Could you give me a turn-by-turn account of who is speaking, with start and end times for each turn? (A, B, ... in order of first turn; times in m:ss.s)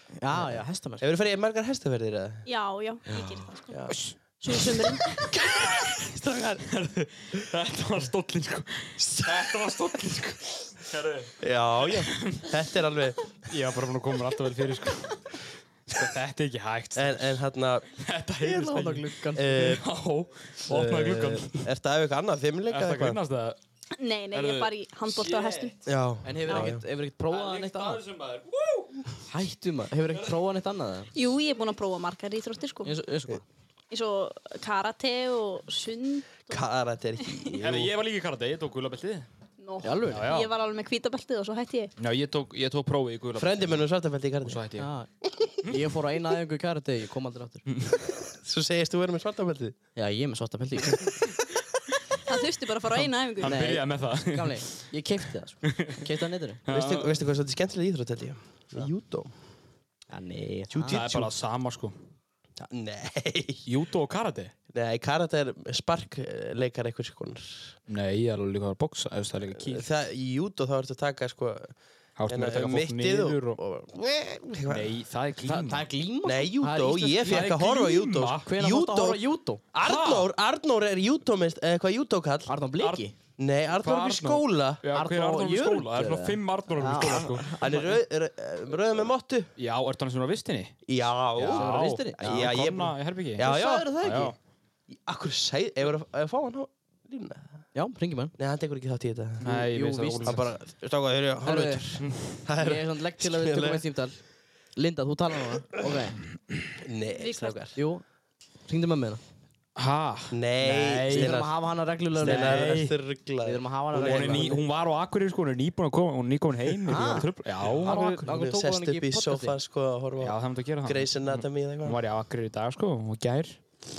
0:00.2-0:01.0 A
0:00.3-0:02.4 B
0:02.4-0:03.8 C
0:03.1-0:04.0 B
0:03.9-0:04.2 D
0:04.4-0:05.2 C
0:05.6-0:06.0 D
0:06.1-0:06.6 B
0:06.6-0:12.5 D
0:09.0-0:09.4 B
0:11.4-0:13.2 B
0:13.4-0:15.2 D
0:15.9-0:17.4 D
0:16.9-0:17.9 B
0:17.9-0:21.6 D
0:18.4-0:19.7 A
0:18.4-0:18.8 B
0:19.4-0:19.8 B
0:20.7-0:23.2 B
0:22.7-0:23.6 D
0:24.0-0:25.8 C
0:24.3-0:25.7 D
0:25.8-0:26.8 B
0:26.2-0:28.0 A
0:27.3-0:29.0 D
0:29.3-0:31.1 A
0:31.1-0:32.9 C
0:32.8-0:33.4 A
0:33.9-0:36.6 C
0:36.5-0:37.9 B
0:37.6-0:39.3 D
0:39.6-0:41.9 C
0:39.8-0:40.2 A
0:40.1-0:40.5 D
0:42.0-0:43.8 D
0:43.4-0:44.6 B
0:44.4-0:44.9 D
0:44.8-0:45.1 A
0:45.6-0:47.7 A
0:48.4-0:49.8 B
0:50.0-0:51.1 A
0:52.3-0:53.7 C
0:53.4-0:54.9 D
0:53.4-0:56.6 A
0:55.6-0:56.0 D
0:56.7-0:57.2 D
0:56.7-0:59.3 B
1:00.1-1:01.1 A
1:00.7-1:01.3 B
1:00.9-1:01.9 D
1:02.6-1:03.6 B
1:03.6-1:04.5 D
1:04.7-1:07.8 B
1:07.9-1:09.9 D
1:09.6-1:11.8 B
1:12.2-1:13.6 D
1:12.3-1:14.9 B
1:14.7-1:15.9 D
1:15.4-1:17.5 A
1:16.2-1:19.2 B
1:17.2-1:18.5 D
1:18.4-1:19.6 A
1:19.7-1:22.5 B
1:19.8-1:20.3 D
1:22.5-1:23.1 A
1:22.8-1:23.1 D
1:23.4-1:24.8 B
1:23.7-1:27.8 D
1:24.9-1:27.9 A
1:27.6-1:29.5 B
1:29.6-1:30.7 D
1:30.9-1:34.3 B
1:31.3-1:34.4 D
1:31.5-1:32.5 A
1:33.4-1:34.3 A
1:34.9-1:37.6 B
1:37.7-1:38.3 A
1:38.4-1:39.4 B
1:39.4-1:40.5 D
1:39.4-1:40.3 A
1:40.2-1:43.8 B
1:41.4-1:41.8 A
1:42.0-1:42.4 D
1:42.6-1:44.2 A
1:44.8-1:46.2 A
1:46.8-1:47.7 B
1:47.1-1:47.6 C
1:47.7-1:48.0 A
1:48.7-1:49.2 A
1:49.8-1:51.4 D
1:50.3-1:51.5 B
1:51.1-1:52.8 A
1:52.2-1:53.0 D
1:52.2-1:54.5 B
1:53.4-1:54.6 A
1:53.9-1:58.2 D
1:56.9-1:59.6 A
1:57.8-2:02.0 B
2:00.2-2:03.6 D